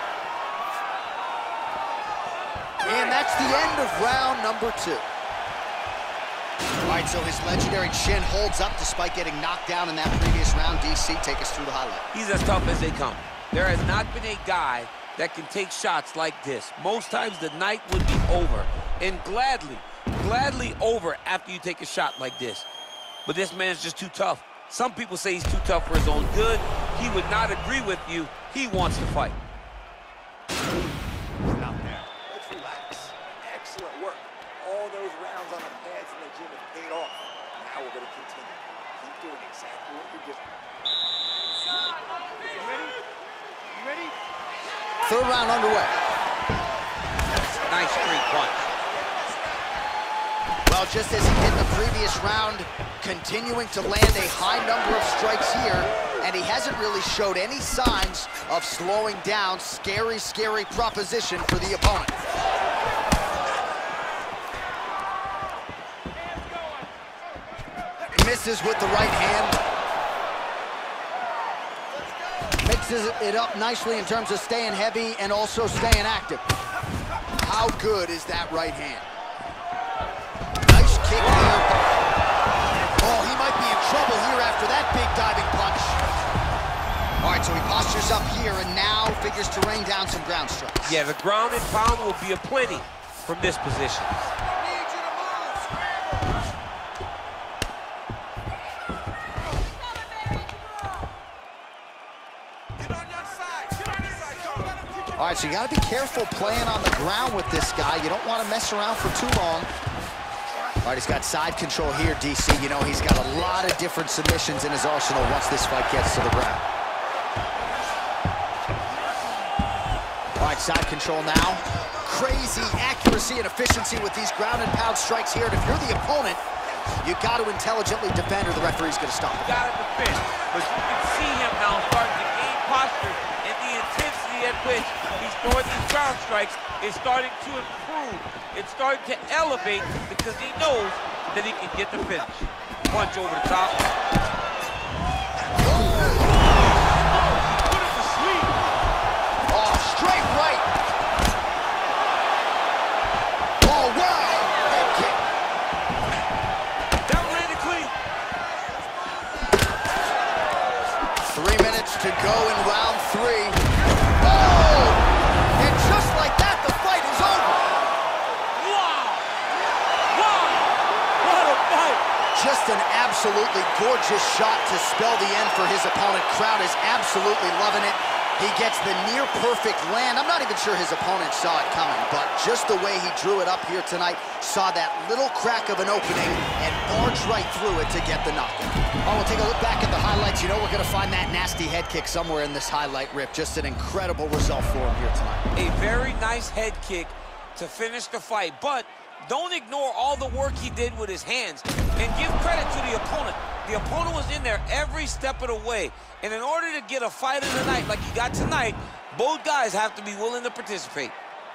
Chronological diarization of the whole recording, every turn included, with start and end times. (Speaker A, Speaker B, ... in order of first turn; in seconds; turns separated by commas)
Speaker A: 2.8-5.0, Speaker A: 6.8-12.0, Speaker B: 12.1-22.6, Speaker B: 23.2-29.4, Speaker C: 31.5-40.5, Speaker A: 45.0-45.9, Speaker B: 47.6-48.7, Speaker A: 50.7-62.1, Speaker A: 68.1-69.6, Speaker A: 72.6-76.4, Speaker A: 77.4-79.1, Speaker A: 80.6-81.8, Speaker A: 83.0-86.0, Speaker A: 87.2-91.0, Speaker B: 90.8-94.1, Speaker A: 105.2-109.7, Speaker A: 110.8-116.6, Speaker A: 120.4-126.4, Speaker A: 127.0-129.6, Speaker B: 129.4-143.8, Speaker A: 145.6-146.4, Speaker B: 146.1-148.5, Speaker A: 149.5-150.7, Speaker A: 153.6-155.2, Speaker B: 157.1-157.9, Speaker A: 161.3-163.6, Speaker A: 164.2-167.8, Speaker B: 168.6-169.2, Speaker B: 170.1-172.0, Speaker A: 172.3-195.4, Speaker B: 195.6-211.1